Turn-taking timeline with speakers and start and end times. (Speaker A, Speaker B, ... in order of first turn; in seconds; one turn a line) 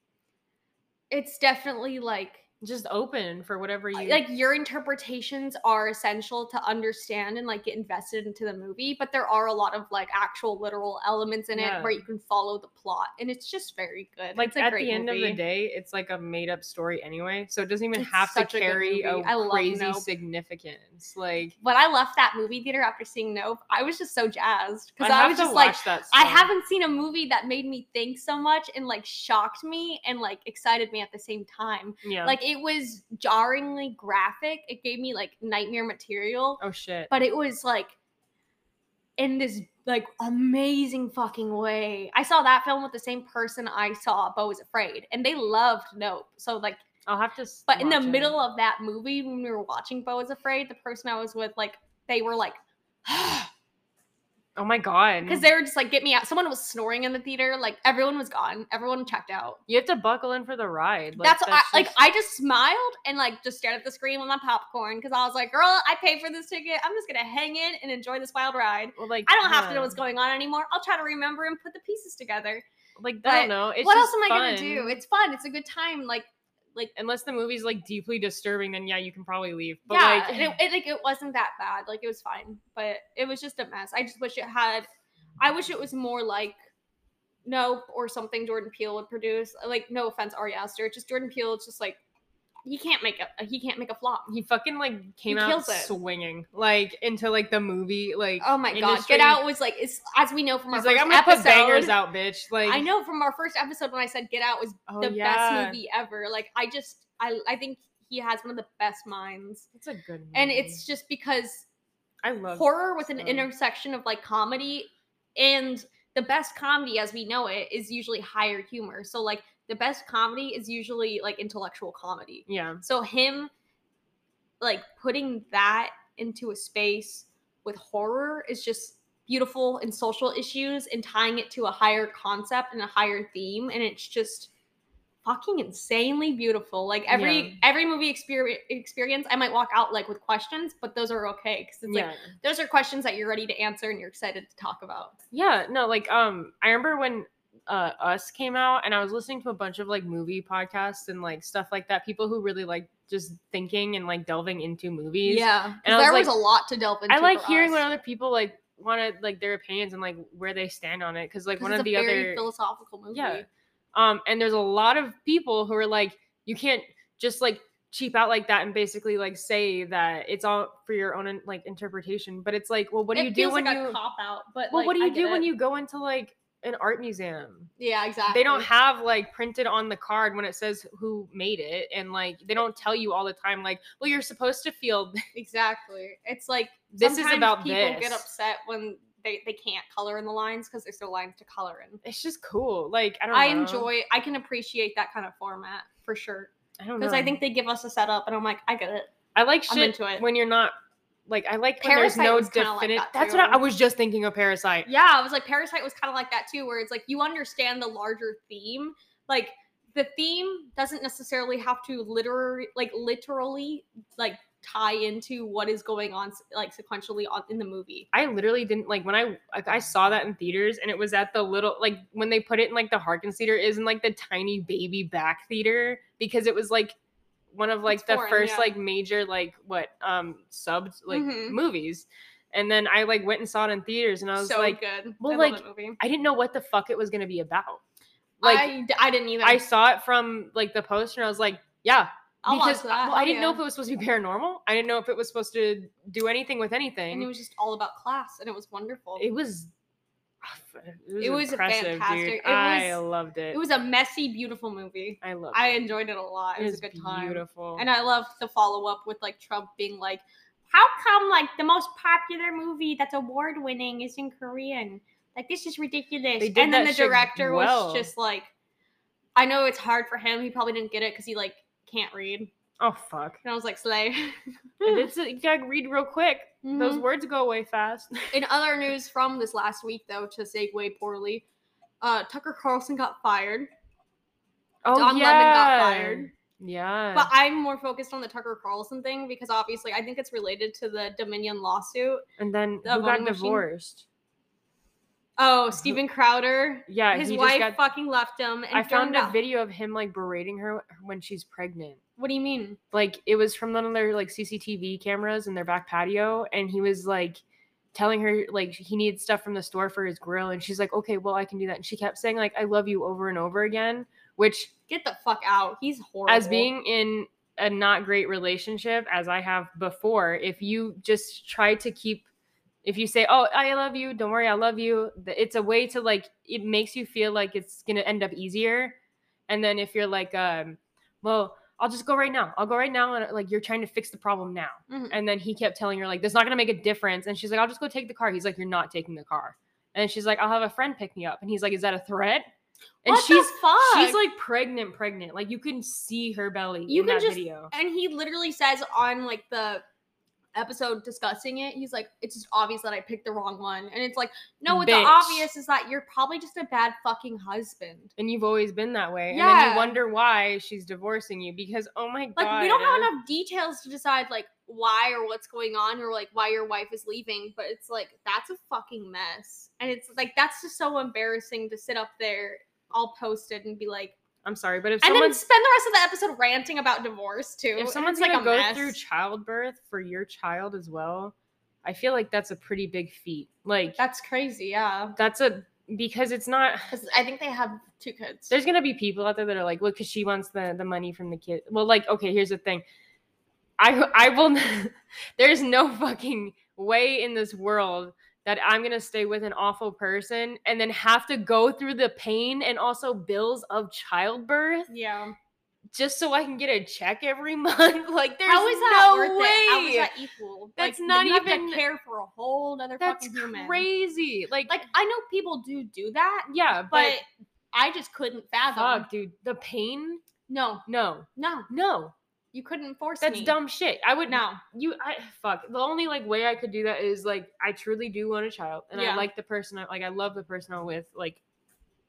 Speaker A: 1.1-2.4
Speaker B: 2.6-4.2
Speaker A: 3.9-15.4
Speaker B: 11.5-12.0
Speaker B: 14.3-21.5
Speaker A: 17.9-20.1
Speaker A: 21.6-38.0
Speaker B: 25.0-26.5
Speaker B: 32.0-32.4
Speaker B: 36.6-37.1
Speaker A: 39.2-46.8
Speaker B: 47.0-48.4
Speaker A: 47.7-53.5
Speaker B: 54.5-55.5
Speaker A: 55.2-59.6
Speaker B: 59.7-62.0
Speaker A: 61.2-72.6
Speaker B: 69.0-70.0
Speaker B: 73.0-75.0
Speaker A: 73.2-76.9
Speaker B: 77.0-80.6
Speaker A: 79.9-84.9
Speaker A: 85.4-86.6
Speaker A: 87.4-92.0
Speaker A: 92.6-94.3
Speaker B: 94.3-99.4
Speaker A: 95.3-96.0
Speaker A: 98.4-102.0
Speaker B: 100.7-102.8
Speaker A: 102.6-109.7
Speaker B: 104.9-105.8
Speaker B: 109.7-110.8
Speaker A: 110.3-111.7
Speaker B: 112.2-113.5
Speaker A: 112.5-123.5
Speaker B: 122.5-122.8
Speaker A: 124.6-134.5
Speaker A: 135.2-145.1
Speaker B: 137.1-137.6
Speaker B: 141.8-142.3
Speaker B: 145.3-156.3
Speaker A: 155.2-157.8
Speaker B: 157.1-162.4
Speaker A: 161.6-163.5
Speaker B: 163.1-174.0
Speaker A: 173.1-175.5
Speaker B: 174.7-177.7
Speaker A: 177.8-178.7
Speaker B: 178.3-185.2
Speaker A: 185.3-192.0
Speaker B: 186.9-188.2
Speaker B: 192.0-193.9
Speaker A: 193.3-199.1
Speaker B: 196.8-197.4
Speaker B: 199.3-200.7
Speaker A: 199.7-200.2
Speaker B: 201.3-204.9
Speaker A: 201.8-203.6
Speaker A: 204.8-218.1
Speaker B: 218.1-226.9
Speaker B: 227.5-237.8
Speaker A: 227.9-228.7
Speaker A: 231.1-231.6
Speaker A: 234.4-236.0
Speaker B: 238.4-238.7
Speaker A: 238.4-239.6
Speaker B: 239.4-247.3
Speaker A: 242.4-243.6
Speaker A: 247.1-249.3
Speaker B: 249.2-249.7
Speaker B: 250.4-253.6
Speaker A: 251.2-253.0
Speaker A: 253.5-268.5
Speaker B: 255.2-255.8
Speaker B: 256.6-257.9
Speaker B: 266.4-268.1
Speaker A: 269.4-272.5
Speaker B: 272.8-273.4
Speaker A: 273.4-275.1
Speaker B: 274.8-278.4
Speaker A: 276.6-277.0
Speaker A: 278.3-281.4
Speaker A: 282.0-283.7
Speaker B: 284.8-287.3
Speaker A: 284.9-286.3
Speaker A: 287.1-292.2
Speaker B: 292.4-294.0
Speaker A: 292.8-293.6
Speaker A: 295.4-299.4
Speaker B: 296.9-297.8
Speaker B: 298.7-302.0
Speaker A: 302.2-302.8
Speaker B: 302.9-307.4
Speaker B: 307.9-314.7
Speaker A: 314.9-316.7
Speaker B: 316.3-322.2
Speaker B: 322.8-329.0
Speaker B: 329.5-342.5
Speaker A: 334.9-335.2
Speaker B: 343.0-347.7
Speaker A: 343.0-344.2
Speaker A: 346.9-349.8
Speaker A: 350.5-358.1
Speaker B: 354.7-355.5
Speaker B: 358.2-363.1
Speaker A: 359.3-360.0
Speaker A: 362.4-374.1
Speaker B: 374.4-375.4
Speaker A: 375.0-379.0
Speaker B: 377.8-384.0
Speaker A: 384.0-385.1
Speaker B: 385.1-386.9
Speaker A: 386.9-388.5
Speaker B: 388.5-392.8
Speaker B: 393.8-404.9
Speaker A: 404.9-405.4
Speaker B: 405.9-410.1
Speaker A: 408.4-413.9
Speaker B: 410.8-411.8
Speaker B: 413.0-414.8
Speaker A: 414.7-419.1
Speaker B: 416.5-417.2
Speaker B: 418.7-420.2
Speaker A: 420.5-420.8
Speaker B: 420.9-422.1
Speaker A: 421.4-421.7
Speaker A: 422.5-423.6
Speaker B: 423.2-431.4
Speaker A: 424.3-424.6
Speaker A: 428.9-429.3